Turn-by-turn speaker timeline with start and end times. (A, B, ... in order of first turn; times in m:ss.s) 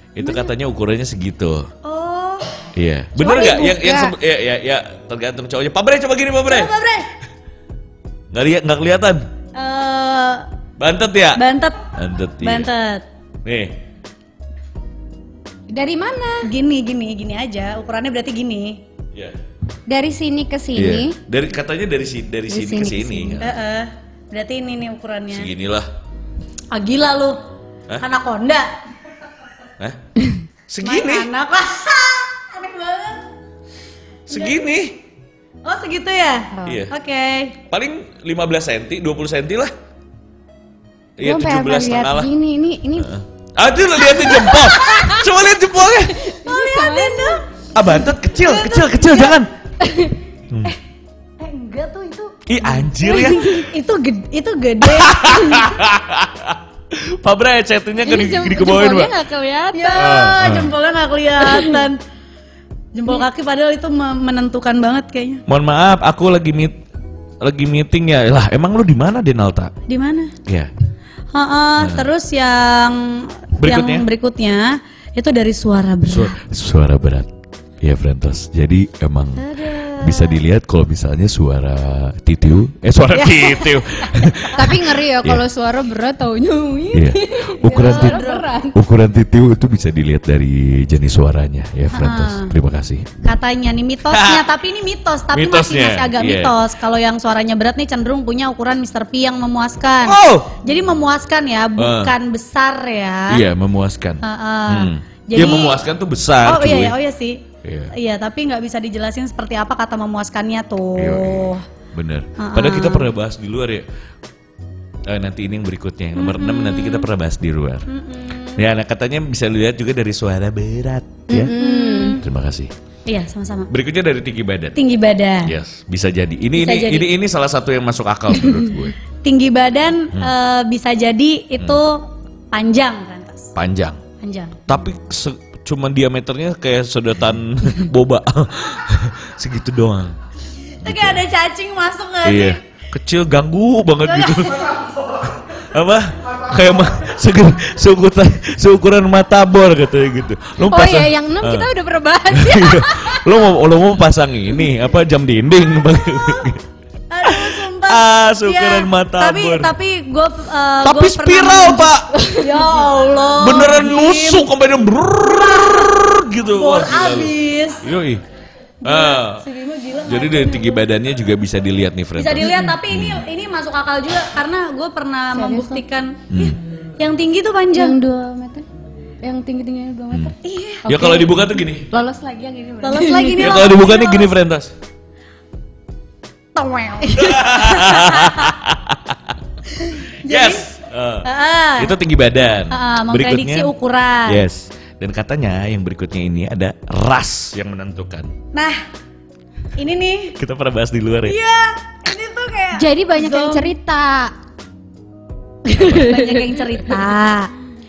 0:00.2-0:01.7 A
0:01.8-0:02.7 B
0:02.8-0:06.7 A
0:03.2-0:04.1 C
0:06.5-0:07.1 B
0:08.3-0:09.3 A
0:09.6-0:10.5 B
0:10.8-0:12.7 A
0:11.4-0:11.8 B
0:12.4-0:13.0 B
0:13.4-0:13.8 A
0:15.7-0:16.5 C
0:16.4-0:18.8 B
0:19.9-0:21.2 C
0:20.8-0:23.6 A
0:22.5-0:23.4 C
0:23.4-0:25.5 B
0:25.3-0:25.9 A
0:26.7-0:27.4 B
0:28.0-0:28.7 B
0:30.7-0:31.3 A
0:30.8-0:33.3 B
0:34.3-0:35.0 A
0:34.3-0:34.6 B
0:35.6-0:37.6 B
0:36.5-0:36.8 C
0:36.6-0:36.9 A
0:37.7-0:39.7 A
0:41.2-0:42.3 A
0:41.2-0:43.1 C
0:43.0-0:46.2 A
0:44.1-0:45.3 C
0:46.1-0:47.4 C
0:46.4-0:47.4 B
0:47.7-0:49.5 A
0:48.4-0:49.4 B
0:49.8-0:50.2 C
0:50.5-0:50.8 A
0:51.4-0:55.7 B
0:52.5-0:53.7 A
0:53.2-0:53.6 C
0:54.8-0:59.2 A
0:58.0-1:00.2 C
0:59.7-1:02.0 B
1:00.0-1:00.7 A
1:01.4-1:01.9 C
1:02.9-1:05.4 B
1:05.5-1:06.8 A
1:07.4-1:09.7 A
1:09.9-1:10.3 B
1:10.5-1:10.7 A
1:11.3-1:16.4 B
1:11.8-1:12.1 A
1:13.6-1:14.1 A
1:16.1-1:25.4 A
1:19.4-1:20.4 B
1:23.4-1:24.5 B
1:24.4-1:28.8 C
1:26.9-1:33.1 A
1:27.7-1:28.4 B
1:31.9-1:32.5 B
1:33.2-1:43.4 B
1:34.1-1:34.5 A
1:35.3-1:36.6 A
1:40.0-1:40.6 A
1:41.8-1:42.2 A
1:43.3-1:47.0 A
1:44.2-1:45.8 B
1:46.4-1:51.6 B
1:47.6-1:47.9 A
1:51.0-1:53.8 A
1:52.4-1:53.1 B
1:55.1-1:57.9 A
1:56.2-1:57.1 B
1:57.9-1:58.6 B
1:58.5-2:01.6 A
2:01.3-2:02.2 C
2:01.5-2:02.2 B
2:02.2-2:02.7 A
2:03.1-2:03.7 B
2:03.7-2:04.8 A
2:04.8-2:05.6 B
2:05.4-2:09.0 A
2:06.6-2:07.1 B
2:09.2-2:13.5 B
2:13.6-2:14.0 A
2:14.2-2:14.6 B
2:14.7-2:20.2 A
2:20.8-2:22.6 B
2:20.8-2:21.2 A
2:22.2-2:31.7 A
2:24.0-2:24.6 B
2:30.7-2:33.4 C
2:32.3-2:36.6 A
2:37.1-2:44.5 B
2:37.2-2:39.7 A
2:40.8-2:42.2 A
2:42.2-2:42.7 C
2:43.3-2:48.2 A
2:45.3-2:46.0 B
2:46.5-2:47.9 B
2:48.8-2:50.7 B
2:48.8-2:49.4 A
2:50.0-2:53.3 A
2:52.2-2:58.0 B
2:55.3-2:55.8 C
2:56.3-2:56.6 A
2:57.7-2:58.7 C
2:59.2-3:03.6 C
3:00.4-3:00.9 B
3:00.9-3:01.9 A
3:02.8-3:04.3 B
3:03.4-3:04.7 A
3:06.6-3:08.5 B
3:07.1-3:09.4 A
3:09.7-3:10.7 B
3:10.2-3:13.7 A
3:11.2-3:12.0 B
3:12.7-3:14.4 B
3:14.3-3:18.3 A
3:18.5-3:18.8 B
3:19.8-3:20.4 B
3:20.4-3:21.4 A
3:21.3-3:23.7 B
3:22.8-3:24.3 C
3:25.7-3:27.5 B
3:25.8-3:26.1 A
3:25.8-3:27.0 C